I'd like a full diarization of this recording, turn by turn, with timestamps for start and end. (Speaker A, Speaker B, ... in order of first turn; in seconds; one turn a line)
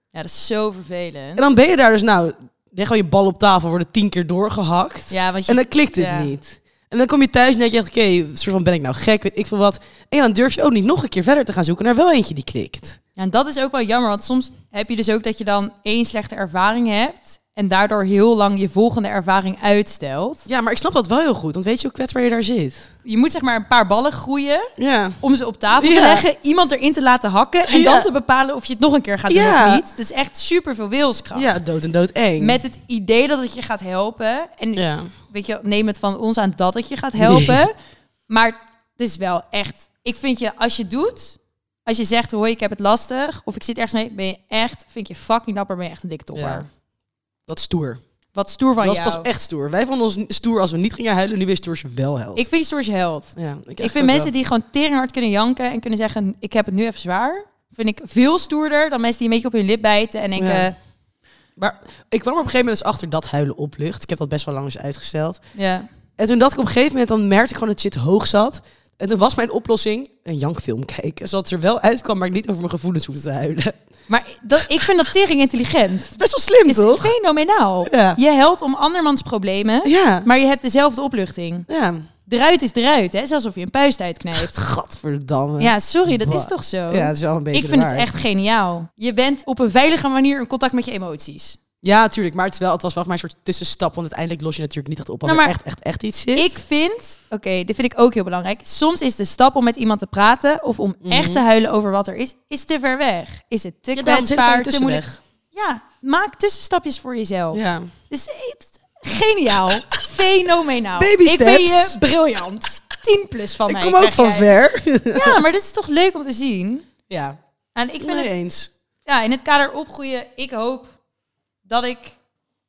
Speaker A: 0.1-1.5
Speaker B: 1.4-13.0
Speaker A: 5.1-6.3
Speaker A: 13.2-20.4
Speaker B: 20.4-22.9
Speaker A: 23.0-31.6
Speaker B: 24.8-25.2
Speaker B: 25.8-26.2
Speaker B: 27.7-28.1
Speaker B: 29.3-29.8
Speaker B: 31.3-32.6
Speaker A: 32.4-37.7
Speaker B: 34.8-35.1
Speaker B: 37.2-37.6
Speaker A: 38.3-46.6
Speaker B: 46.3-46.7
Speaker B: 47.5-48.0
Speaker A: 48.3-49.3
Speaker B: 48.8-52.5
Speaker A: 52.3-60.8
Speaker B: 53.3-54.3
Speaker B: 60.4-60.7
Speaker B: 61.6-65.4
Speaker A: 65.5-65.9
Speaker B: 66.2-73.8
Speaker A: 74.1-81.7
Speaker B: 76.1-77.1
Speaker B: 77.9-78.2
Speaker B: 79.8-80.3
Speaker B: 81.7-82.0
Speaker A: 82.2-84.5
Speaker B: 84.3-88.1
Speaker A: 85.6-91.6
Speaker B: 91.8-96.5
Speaker A: 95.2-95.5
Speaker A: 96.3-114.5
Speaker B: 101.0-101.4
Speaker B: 103.9-105.2
Speaker B: 107.5-107.9
Speaker B: 111.0-112.0
Speaker B: 113.7-115.4
Speaker A: 115.1-116.9
Speaker B: 117.1-117.4
Speaker A: 117.8-118.3
Speaker B: 118.0-118.7
Speaker A: 119.0-120.9
Speaker A: 121.7-122.2